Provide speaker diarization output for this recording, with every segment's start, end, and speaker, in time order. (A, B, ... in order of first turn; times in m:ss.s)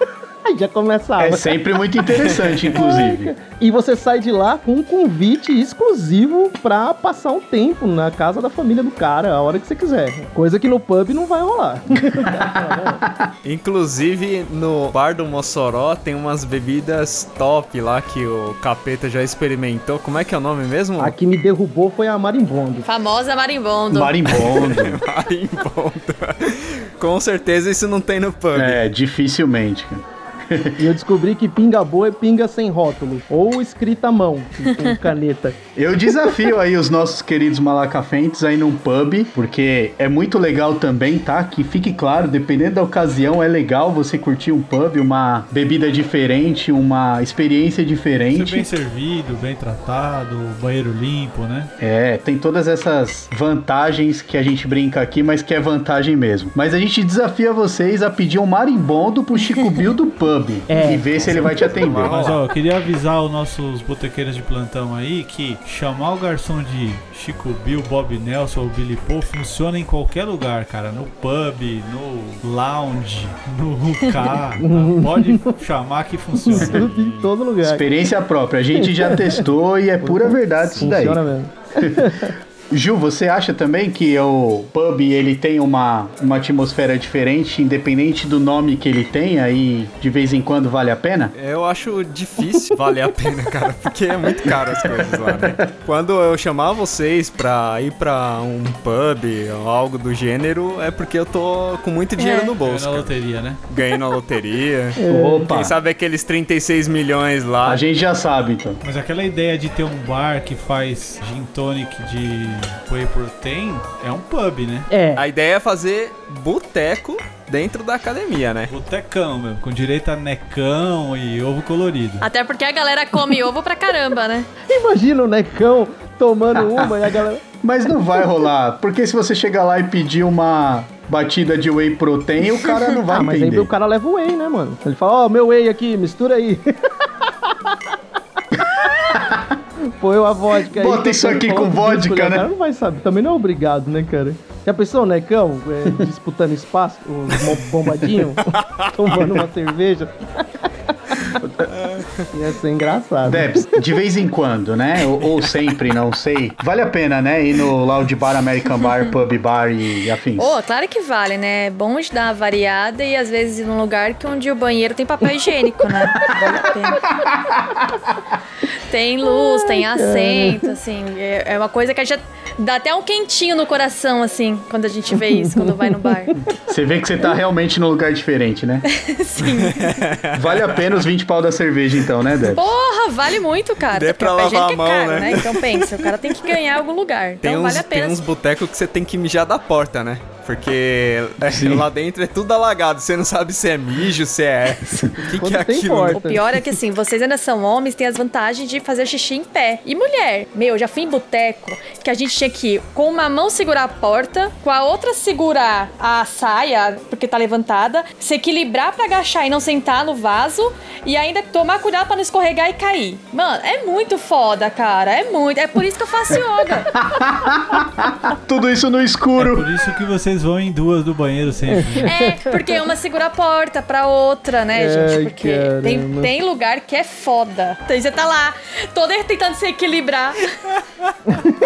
0:00.4-0:01.6 A
0:01.2-0:03.4 B
0:02.2-0:02.7 C
0:02.3-0:13.0 A
0:12.1-0:13.3 B
0:13.4-0:21.2 C
0:21.0-0:22.9 A
0:22.9-0:24.2 D
0:23.9-0:25.0 B
0:24.3-0:28.8 C
0:28.5-0:30.8 B
0:30.8-0:35.6 A
0:35.8-0:48.7 B
0:48.3-0:51.7 E
0:51.8-1:02.2 B
1:00.7-1:01.0 A
1:00.9-1:02.4 C
1:01.3-1:16.9 E
1:14.6-1:15.6 A
1:16.4-1:17.9 A
1:16.5-1:17.3 C
1:17.6-1:21.2 B
1:18.8-1:19.5 A
1:20.0-1:22.4 A
1:21.8-1:31.3 B
1:31.4-1:43.1 C
1:34.7-1:35.7 B
1:42.2-1:42.6 D
1:42.6-1:43.6 E
1:43.7-1:45.0 C
1:45.0-1:45.5 A
1:45.1-1:45.8 B
1:45.5-1:47.8 C
1:47.6-1:48.8 B
1:48.8-1:54.9 E
1:54.9-1:55.2 A
1:55.2-1:58.7 C
1:58.7-2:02.3 E
2:02.2-2:04.5 D
2:04.7-2:07.4 A
2:06.6-2:07.1 B
2:07.6-2:13.7 B
2:13.1-2:16.9 A
2:19.1-2:19.6 B
2:19.8-2:30.5 A
2:20.7-2:22.5 B
2:28.4-2:29.3 C
2:31.1-2:31.3 A
2:31.7-2:32.3 C
2:32.3-2:33.8 A
2:33.3-2:40.6 B
2:38.8-2:39.1 D
2:40.4-2:47.1 D
2:46.2-2:47.0 A
2:47.2-2:47.9 B
2:48.9-2:56.3 D
2:49.4-2:50.7 A
2:55.3-2:56.5 A
2:56.6-2:58.9 B
2:59.0-3:00.0 D
2:59.4-3:00.9 C
3:00.3-3:02.8 B
3:02.4-3:08.2 D
3:03.9-3:06.6 C
3:07.4-3:16.3 C
3:11.5-3:11.9 B
3:15.3-3:16.4 A
3:16.1-3:36.9 D
3:37.0-3:39.7 B
3:39.4-3:42.1 E
3:41.7-3:42.7 A
3:42.0-3:50.5 D
3:44.7-3:46.3 A